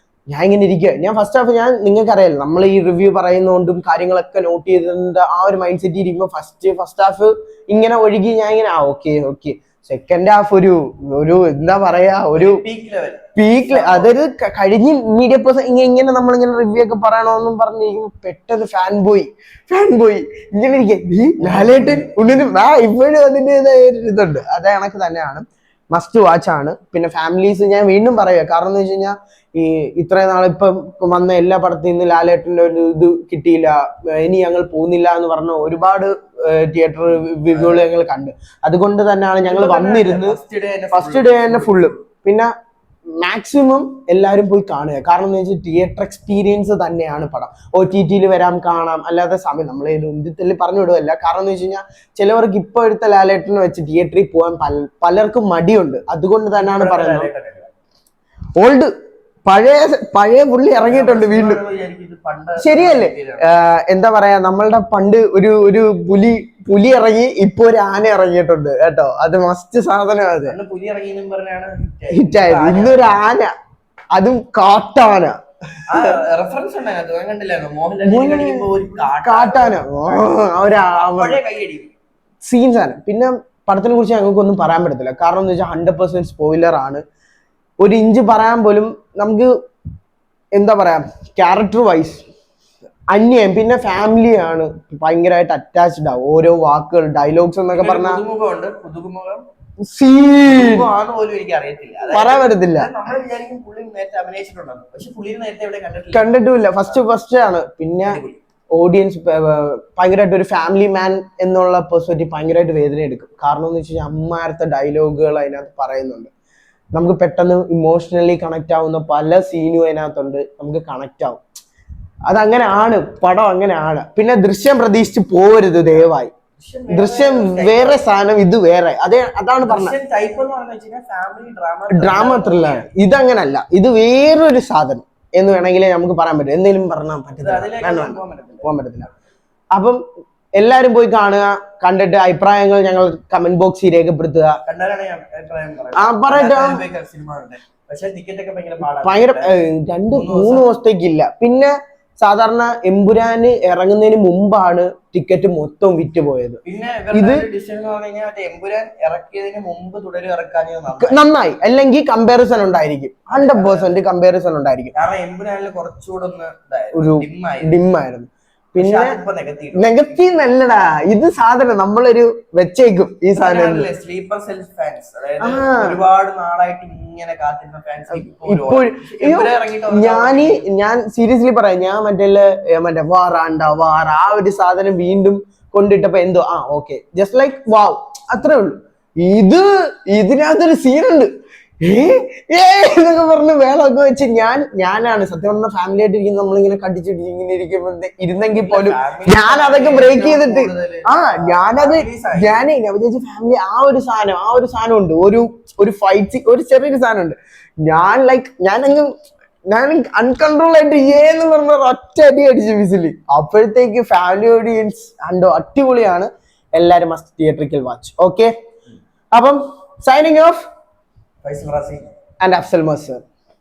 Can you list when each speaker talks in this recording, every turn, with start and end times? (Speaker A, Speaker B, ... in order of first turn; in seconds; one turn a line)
Speaker A: 0.3-12.6
Speaker B: 12.3-14.1
Speaker A: 13.4-40.4
Speaker B: 21.4-22.2
Speaker B: 37.5-37.8
Speaker B: 39.4-42.0
Speaker A: 40.9-42.5
Speaker A: 43.2-57.3
Speaker B: 56.5-57.7
Speaker A: 58.6-58.9
Speaker A: 59.5-61.6
Speaker B: 60.8-63.4
Speaker A: 62.6-70.6
Speaker B: 70.5-73.1
Speaker A: 72.1-73.5
Speaker A: 74.1-75.4
Speaker B: 75.9-81.9
Speaker A: 78.0-78.7
Speaker A: 79.2-81.4
Speaker A: 82.4-87.0
Speaker A: 87.8-89.5
Speaker A: 90.5-92.2
Speaker A: 93.1-98.2
Speaker B: 97.7-99.5
Speaker A: 99.8-100.9
Speaker B: 100.4-106.4
Speaker A: 102.1-102.9
Speaker A: 106.1-108.2
Speaker B: 108.0-108.4
Speaker A: 108.8-116.3
Speaker A: 117.0-121.4
Speaker A: 122.3-126.3
Speaker B: 126.5-128.0
Speaker A: 126.9-130.0
Speaker B: 129.6-132.9
Speaker A: 131.9-139.1
Speaker B: 137.4-138.7
Speaker A: 139.7-140.0
Speaker A: 140.6-144.6
Speaker B: 144.6-149.5
Speaker A: 146.0-146.8
Speaker A: 148.8-156.6
Speaker B: 150.1-150.7
Speaker B: 156.6-161.2
Speaker A: 157.1-157.5
Speaker A: 161.0-164.9
Speaker B: 163.3-163.9
Speaker B: 164.9-167.8
Speaker A: 166.9-169.2
Speaker B: 168.8-169.9
Speaker A: 169.7-173.9
Speaker B: 173.3-180.6
Speaker A: 175.4-176.0
Speaker A: 178.1-191.3
Speaker A: 191.8-209.1
Speaker B: 198.4-202.6
Speaker A: 209.7-218.5
Speaker A: 219.3-220.6
Speaker B: 221.4-222.0
Speaker A: 222.4-223.2